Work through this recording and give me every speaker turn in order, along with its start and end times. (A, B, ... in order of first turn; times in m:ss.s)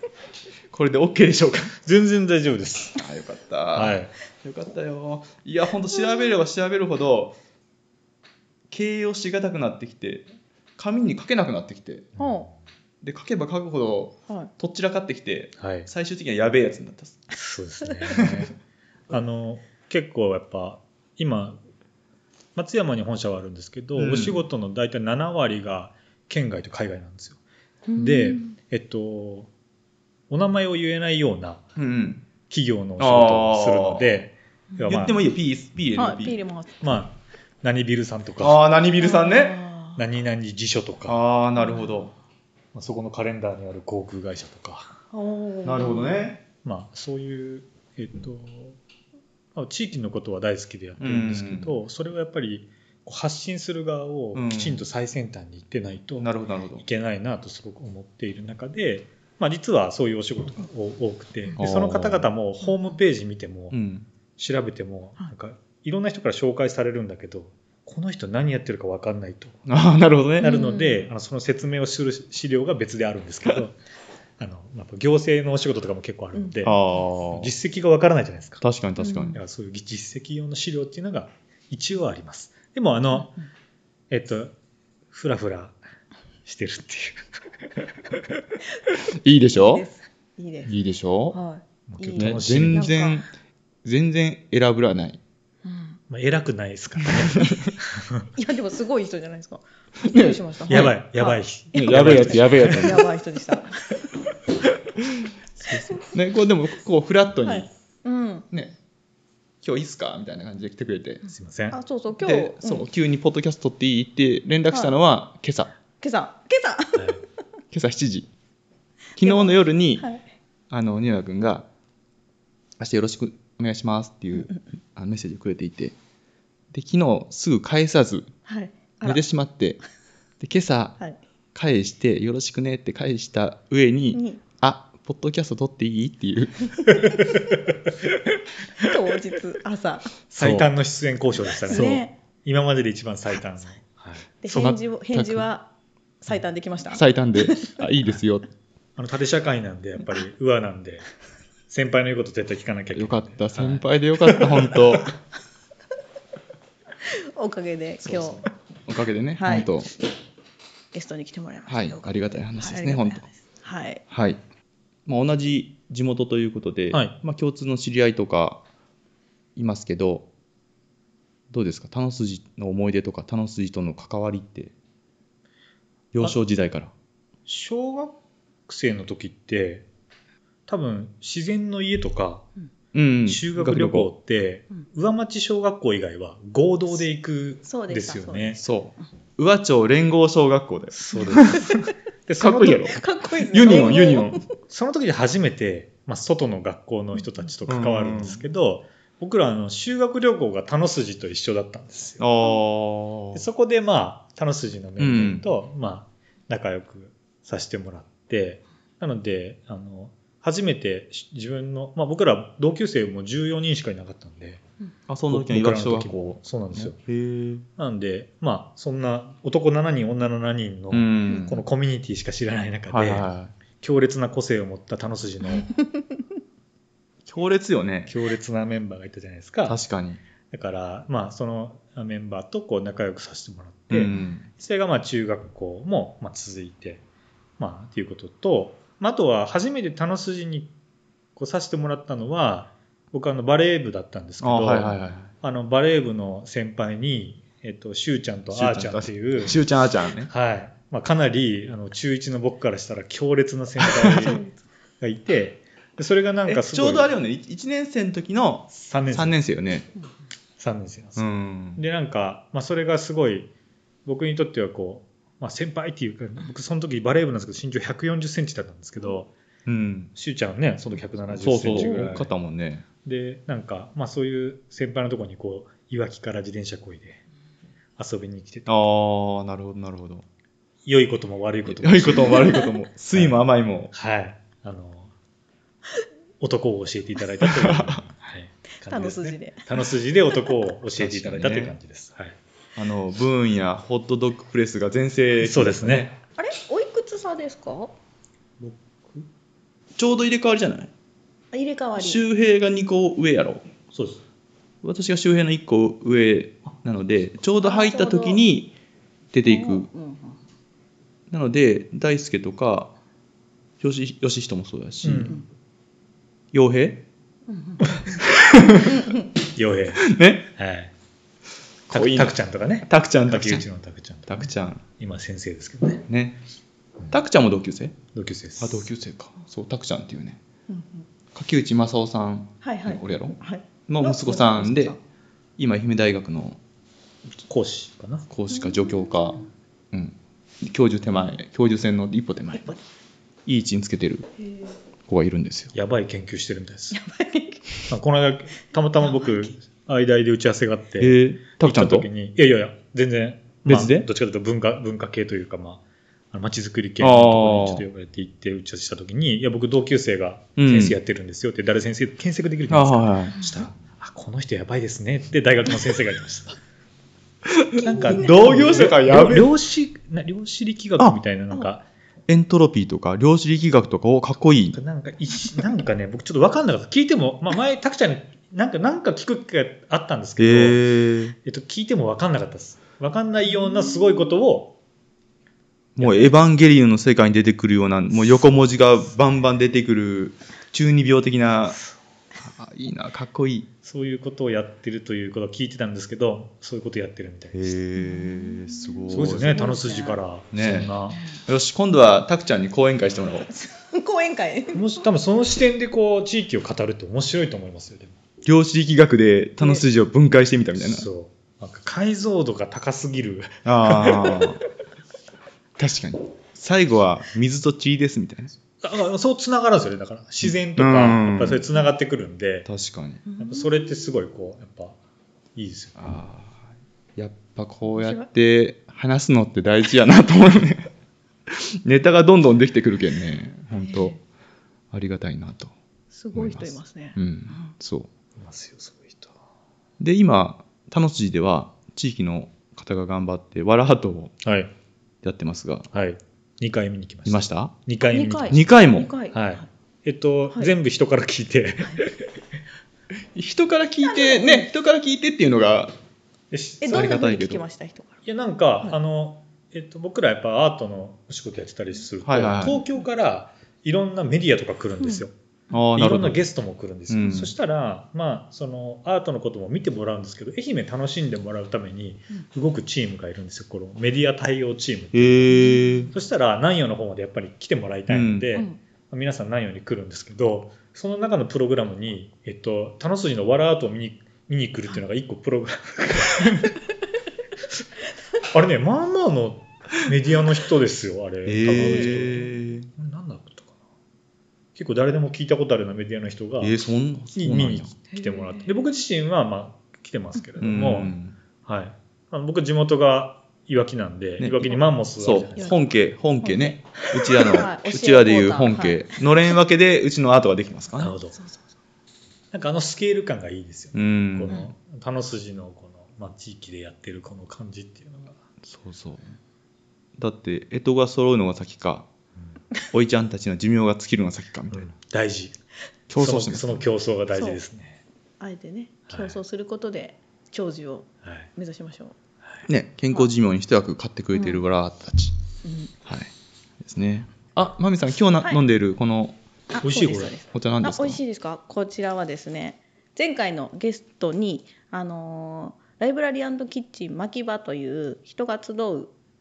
0:00.7-0:01.8 A
0:01.8-0:03.0 B
0:03.0-0:07.4 A
0:03.7-0:04.1 B
0:08.7-0:10.2 A
0:10.8-0:12.1 A
0:12.2-0:12.4 B
0:12.2-0:12.5 C
0:13.0-0:17.2 A
0:15.6-0:15.9 B
0:17.3-0:18.5 B
0:18.1-0:18.4 A
0:19.1-0:21.6 B
0:22.6-0:27.4 B
0:23.9-0:24.4 A
0:27.9-0:28.5 C
0:28.0-0:29.5 B
0:30.3-0:31.6 B
0:31.8-0:32.3 A
0:32.5-0:35.2 B
0:33.0-0:34.1 A
0:34.8-0:36.4 A
0:35.9-0:37.0 C
0:36.8-0:38.6 B
0:38.4-0:39.6 A
0:39.0-0:40.0 C
0:40.0-0:41.2 B
0:41.0-0:42.1 A
0:41.6-0:41.9 C
0:42.7-0:44.9 B
0:45.1-0:46.1 C
0:45.6-0:46.4 A
0:46.6-0:48.8 B
0:49.5-1:03.8 B
0:51.0-0:51.8 A
0:54.3-0:54.8 A
0:56.2-0:56.8 A
1:01.6-1:02.3 A
1:03.7-1:04.1 A
1:04.4-1:09.6 B
1:09.7-1:10.6 A
1:10.4-1:11.1 C
1:10.4-1:13.8 B
1:14.4-1:16.8 B
1:16.6-1:17.5 A
1:17.3-1:18.6 B
1:18.6-1:19.4 A
1:19.0-1:19.3 C
1:19.3-1:23.4 B
1:24.1-1:24.5 B
1:25.1-1:25.8 B
1:26.4-1:27.3 B
1:29.1-1:29.8 A
1:29.5-1:30.8 C
1:30.6-1:31.4 A
1:31.3-1:33.2 C
1:31.9-1:32.9 B
1:32.2-1:33.3 A
1:33.8-1:35.2 A
1:35.6-1:36.0 C
1:36.1-1:38.2 B
1:37.2-1:37.7 A
1:38.4-1:44.1 C
1:40.0-1:40.9 A
1:40.7-1:43.0 B
1:41.7-1:43.1 A
1:45.0-1:47.7 A
1:45.7-1:46.0 C
1:47.4-1:48.4 C
1:48.5-1:48.8 A
1:49.6-1:51.2 A
1:51.3-1:51.8 B
1:51.7-1:52.9 C
1:52.2-1:55.7 A
1:56.0-1:57.2 C
1:57.7-1:58.3 A
1:59.2-2:00.0 A
1:59.2-2:00.2 C
2:00.7-2:01.7 A
2:02.8-2:05.9 A
2:06.7-2:08.3 A
2:08.4-2:09.2 C
2:09.0-2:09.8 A
2:10.4-2:11.0 A
2:11.5-2:17.0 A
2:14.1-2:14.4 C
2:18.8-2:20.1 C
2:20.3-2:24.3 B
2:20.4-2:20.7 A
2:21.7-2:22.1 C
2:21.7-2:22.0 A
2:24.4-2:25.7 C
2:24.5-2:25.5 A
2:26.2-2:27.8 C
2:26.9-2:28.5 A
2:29.0-2:31.1 B
2:31.7-2:35.0 B
2:32.9-2:35.1 A
2:37.0-2:38.4 C
2:38.0-2:39.9 A
2:39.4-2:39.7 C
2:40.9-2:44.0 C
2:41.7-2:43.2 A
2:44.1-2:44.4 A
2:45.0-2:48.6 A
2:49.6-2:50.3 A
2:51.5-2:54.7 A
2:56.1-2:56.9 A
2:57.5-2:58.2 B
2:58.7-2:59.8 B
3:00.7-3:02.4 B
3:02.9-3:04.1 A
3:03.2-3:08.6 B
3:07.6-3:08.6 C
3:08.6-3:11.7 A
3:10.9-3:12.9 B
3:11.4-3:11.7 C
3:12.4-3:14.4 A
3:12.6-3:14.5 C
3:13.7-3:22.2 B
3:17.6-3:18.4 A
3:22.2-3:23.4 A
3:23.3-3:34.6 B
3:25.0-3:25.4 A
3:35.1-3:37.6 A
3:35.3-3:37.0 B
3:37.8-3:43.3 B
3:40.9-3:41.6 A
3:42.9-3:43.5 A
3:43.8-3:45.7 B
3:47.2-3:48.1 A
3:48.1-3:49.8 B
3:49.6-3:50.2 A
3:50.5-3:57.0 B
3:53.9-3:54.5 A
3:57.6-4:00.7 B
4:01.4-4:09.6 B
4:04.4-4:05.3 A
4:08.5-4:10.3 A
4:10.3-4:14.4 B
4:13.8-4:14.3 A
4:14.2-4:14.5 C
4:15.0-4:17.1 B
4:16.4-4:19.9 A
4:18.7-4:19.4 B
4:20.6-4:23.5 B
4:21.2-4:21.8 A
4:24.0-4:29.3 B
4:29.6-4:30.1 A
4:30.2-4:32.3 B
4:31.3-4:32.8 A
4:31.7-4:32.0 C
4:33.0-4:37.2 B
4:38.0-4:38.7 B
4:38.6-4:40.2 A
4:40.8-4:45.1 B
4:41.6-4:43.9 A
4:46.4-4:52.4 B
4:47.4-4:48.0 A
4:48.8-4:49.6 C
4:50.9-4:51.8 A
4:52.8-4:56.1 A
4:55.4-4:56.1 B
4:56.4-4:57.9 C
4:58.6-4:59.2 B
5:00.0-5:00.9 A
5:01.5-5:02.2 C
5:01.9-5:03.7 A
5:03.9-5:04.2 B
5:04.8-5:08.7 A
5:07.6-5:08.4 C
5:09.3-5:09.9 A
5:09.4-5:10.4 C
5:11.3-5:12.9 A
5:13.8-5:15.4 A
5:15.0-5:15.4 B
5:16.5-5:17.0 A
5:17.5-5:18.0 C
5:17.9-5:18.2 B
5:18.3-5:19.0 A
5:18.9-5:19.2 C
5:19.5-5:20.9 B
5:20.0-5:20.5 A
5:21.9-5:26.0 B
5:21.9-5:22.3 A
5:22.8-5:23.6 A
5:24.3-5:24.8 A
5:26.1-5:26.4 A
5:27.1-5:28.0 A
5:28.1-5:28.9 B
5:28.6-5:30.4 A
5:30.7-5:31.0 C
5:31.3-5:35.0 A
5:32.6-5:35.0 C
5:35.6-5:36.6 A
5:37.5-5:38.3 B
5:38.3-5:42.7 A
5:38.5-5:39.4 C
5:42.5-5:42.8 C
5:43.4-5:44.3 A
5:44.4-5:44.7 C
5:45.1-5:45.7 A
5:45.7-5:47.0 B
5:46.9-5:47.8 C
5:47.9-6:06.6 B
5:49.0-5:49.5 C
5:51.0-5:52.1 A
5:53.6-5:54.1 A
5:57.0-5:57.8 A
6:00.6-6:01.0 A
6:02.7-6:03.4 A
6:03.4-6:03.6 C
6:07.4-6:09.5 A
6:07.8-6:08.8 C
6:07.8-6:11.8 B
6:12.3-6:14.8 A
6:14.7-6:20.8 B
6:20.4-6:21.3 A
6:21.4-6:24.7 B
6:26.0-6:31.8 A
6:26.0-6:26.3 B
6:32.4-6:33.7 A
6:33.8-6:37.7 B
6:37.5-6:39.7 A
6:38.0-6:40.2 C
6:39.1-6:41.2 B
6:40.5-6:43.5 A
6:41.1-6:41.4 C
6:43.4-6:45.0 C
6:44.7-6:48.2 B
6:48.4-6:51.1 A
6:50.8-6:54.6 B
6:53.6-6:54.6 A
6:55.8-6:58.5 A
6:58.8-7:02.7 B
7:00.4-7:01.6 A
7:02.6-7:03.2 A
7:03.2-7:04.0 C
7:03.4-7:05.0 B
7:05.6-7:06.1 B
7:06.0-7:10.9 A
7:08.0-7:08.3 C
7:11.5-7:14.2 A
7:13.8-7:14.2 C
7:14.9-7:15.7 A
7:16.1-7:17.7 C
7:16.3-7:18.1 A
7:18.4-7:19.3 B
7:20.0-7:24.4 A
7:24.4-7:24.7 B
7:25.2-7:25.9 A
7:25.9-7:28.6 B
7:27.2-7:27.7 A
7:28.0-7:29.7 C
7:28.5-7:29.1 A
7:29.3-7:32.3 B
7:33.3-7:35.9 A
7:34.0-7:34.7 C
7:36.5-7:37.2 B
7:36.8-7:38.1 C
7:36.9-7:37.6 A
7:38.2-7:45.3 B
7:42.2-7:42.8 A
7:45.7-7:46.4 A
7:45.9-8:06.8 B
7:47.1-7:47.5 A
7:55.1-7:56.1 A
7:55.5-7:56.1 C
7:58.1-7:58.5 A
8:08.5-8:13.7 B
8:11.4-8:12.9 A
8:11.8-8:12.4 C
8:14.8-8:16.8 B
8:16.6-8:17.9 A
8:17.3-8:25.8 B
8:18.1-8:18.8 C
8:20.6-8:21.3 A
8:24.4-8:31.1 A
8:26.4-8:29.2 C
8:31.0-8:31.4 B
8:31.3-8:31.6 C
8:32.5-8:38.4 B
8:33.9-8:34.7 A
8:38.6-8:39.3 A
8:40.2-8:42.1 A
8:42.9-8:44.9 A
8:44.7-8:45.5 B
8:46.1-8:46.8 A
8:46.2-8:48.0 B
8:47.3-8:47.6 C
8:48.4-8:52.2 C
8:49.1-8:49.4 B
8:52.7-8:55.4 A
8:54.3-8:54.6 C
8:55.6-8:55.9 C
8:56.0-8:59.4 A
8:59.7-9:09.1 C
8:59.8-9:00.3 B
9:00.5-9:01.2 A